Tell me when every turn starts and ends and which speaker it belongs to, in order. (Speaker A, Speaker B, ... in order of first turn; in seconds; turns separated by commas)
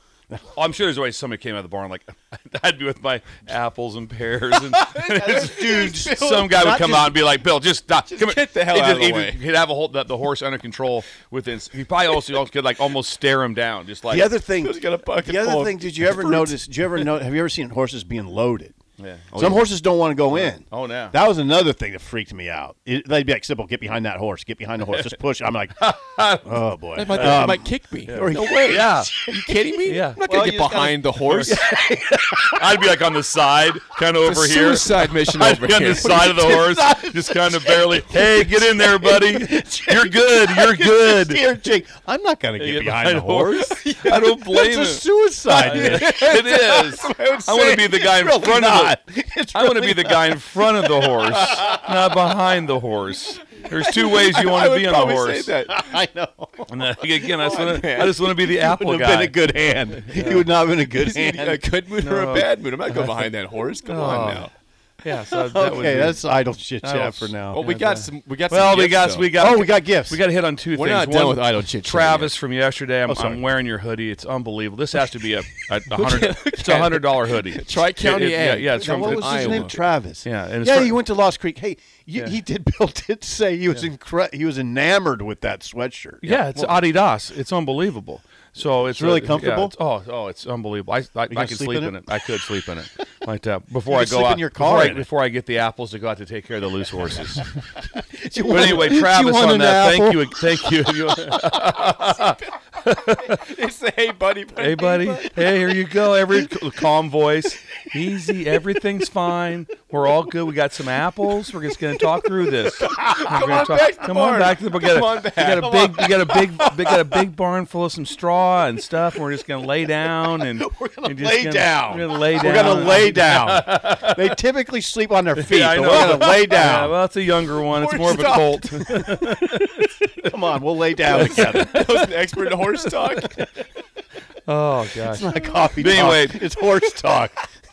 Speaker A: 0.5-14.3, Speaker B: 4.7-6.8, Speaker C: 5.1-7.2, Speaker B: 8.1-9.4, Speaker C: 14.1-18.8, Speaker B: 14.6-16.5, Speaker A: 19.0-19.4, Speaker B: 19.3-19.6, Speaker C: 19.4-32.9, Speaker A: 20.3-21.1, Speaker A: 25.8-27.5, Speaker B: 26.9-31.6, Speaker A: 28.1-29.1, Speaker A: 29.9-30.6, Speaker A: 31.2-31.7, Speaker A: 32.4-41.4, Speaker B: 34.2-36.6, Speaker C: 36.1-51.9, Speaker A: 42.6-45.0, Speaker B: 45.5-47.8, Speaker A: 45.5-49.0, Speaker A: 49.5-55.5, Speaker B: 53.7-55.9, Speaker C: 55.7-61.6, Speaker A: 56.7-59.3, Speaker B: 57.5-58.2, Speaker B: 60.9-64.5, Speaker A: 62.0-63.1, Speaker A: 63.9-64.5, Speaker A: 65.0-66.2, Speaker C: 65.4-67.6, Speaker A: 66.8-79.7, Speaker B: 67.5-69.3, Speaker C: 69.3-70.2, Speaker B: 70.7-72.3, Speaker C: 73.1-73.4, Speaker B: 75.8-79.8, Speaker C: 78.7-86.4, Speaker A: 80.2-81.0, Speaker A: 86.2-97.5, Speaker C: 88.8-89.7, Speaker C: 91.3-92.4, Speaker C: 93.9-95.1, Speaker C: 98.0-101.3, Speaker A: 98.4-103.4, Speaker B: 101.9-105.7, Speaker A: 104.6-124.3, Speaker B: 112.8-117.2, Speaker C: 112.9-113.8, Speaker C: 120.6-126.9, Speaker B: 122.5-123.1, Speaker A: 125.4-129.9, Speaker B: 125.9-126.2, Speaker B: 127.7-129.2, Speaker C: 130.2-131.8, Speaker B: 131.1-133.4, Speaker A: 131.1-131.9, Speaker A: 133.1-133.5, Speaker A: 134.5-136.5, Speaker C: 135.0-137.4